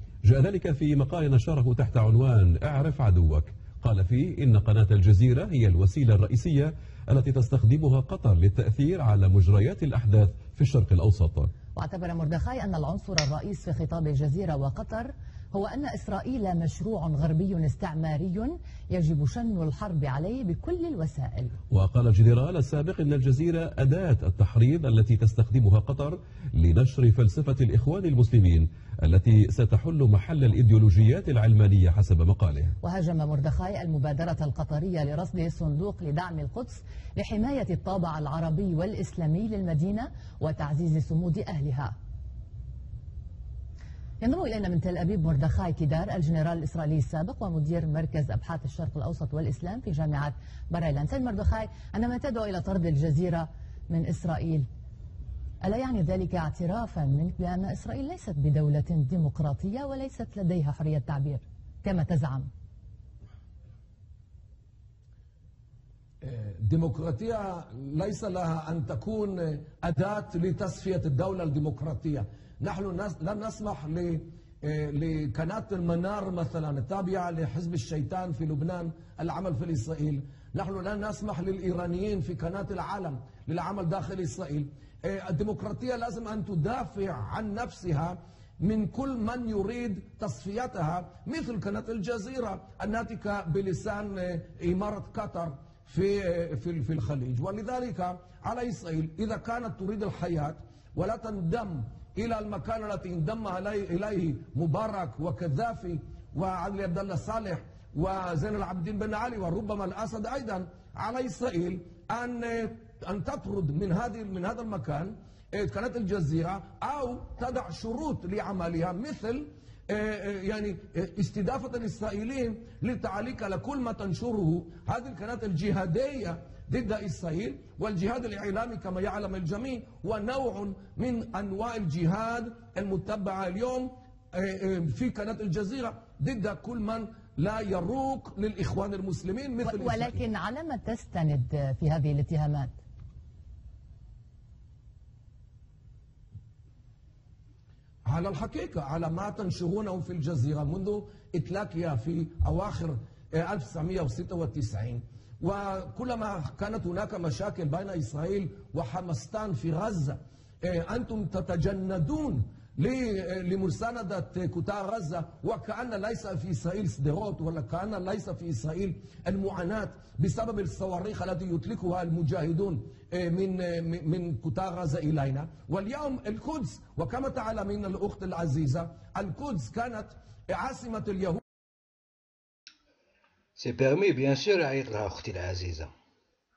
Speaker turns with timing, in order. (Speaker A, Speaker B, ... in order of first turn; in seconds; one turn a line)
Speaker A: 0.2-11.5
Speaker B: 11.8-21.6
Speaker A: 21.7-32.8
Speaker B: 32.8-42.0
Speaker B: 44.2-54.7
Speaker B: 55.6-62.5
Speaker C: 66.2-140.2
Speaker B: 139.6-142.8
Speaker C: 148.1-181.4
Speaker D: 183.6-185.9